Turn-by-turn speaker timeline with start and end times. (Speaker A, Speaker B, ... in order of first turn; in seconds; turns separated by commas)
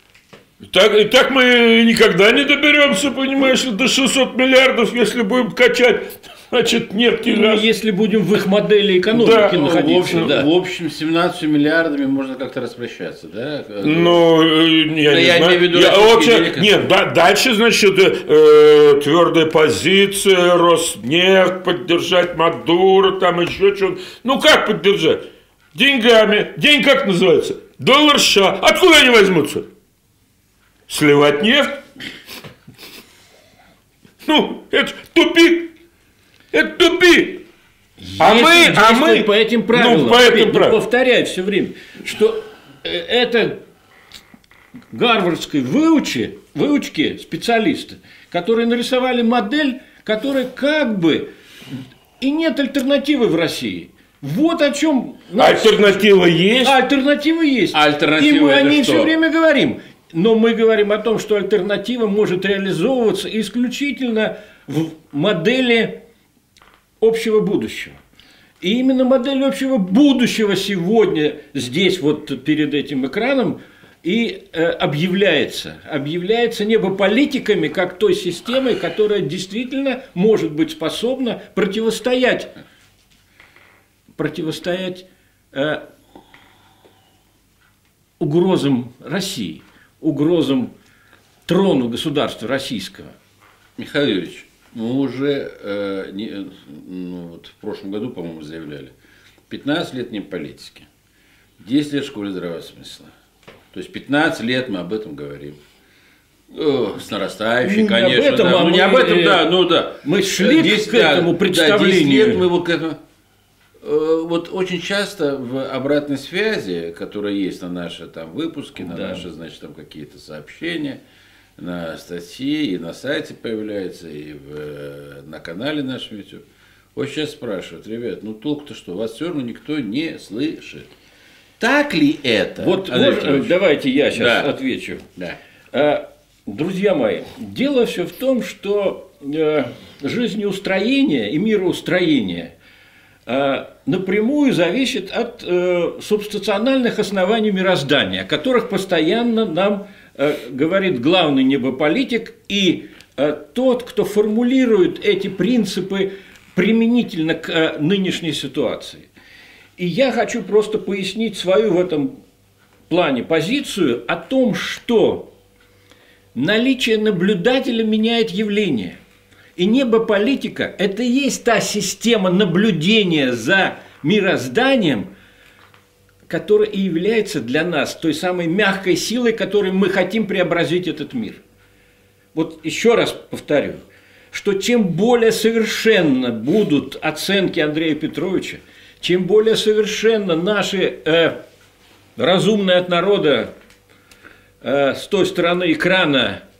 Speaker A: 0.6-7.6, Speaker B: 7.2-10.4, Speaker A: 9.1-10.4, Speaker C: 9.5-14.2, Speaker A: 13.8-29.7, Speaker C: 15.1-16.9, Speaker A: 30.9-31.8, Speaker A: 34.2-35.7, Speaker A: 36.5-37.4, Speaker B: 38.0-43.6, Speaker A: 38.2-40.8, Speaker B: 44.9-51.3, Speaker B: 52.2-56.0, Speaker A: 55.4-56.8, Speaker B: 56.6-66.0, Speaker C: 57.7-59.1, Speaker B: 67.0-68.0, Speaker B: 68.6-82.5, Speaker B: 84.2-85.8, Speaker B: 88.2-90.7, Speaker B: 91.5-93.2, Speaker C: 93.8-99.0, Speaker C: 99.5-100.9, Speaker C: 101.6-103.1, Speaker C: 103.7-105.6, Speaker C: 106.5-113.0, Speaker B: 107.6-109.5, Speaker B: 110.0-112.5, Speaker C: 113.8-121.0, Speaker B: 118.8-119.3, Speaker C: 121.6-130.9, Speaker C: 131.6-133.6, Speaker B: 132.6-135.1, Speaker C: 134.1-134.5, Speaker B: 135.7-142.5, Speaker B: 143.3-159.1, Speaker B: 159.8-162.2, Speaker B: 162.9-165.3, Speaker B: 166.3-169.0, Speaker B: 169.6-175.1, Speaker B: 176.3-181.4, Speaker B: 182.3-191.4, Speaker B: 192.2-193.5, Speaker B: 194.6-196.4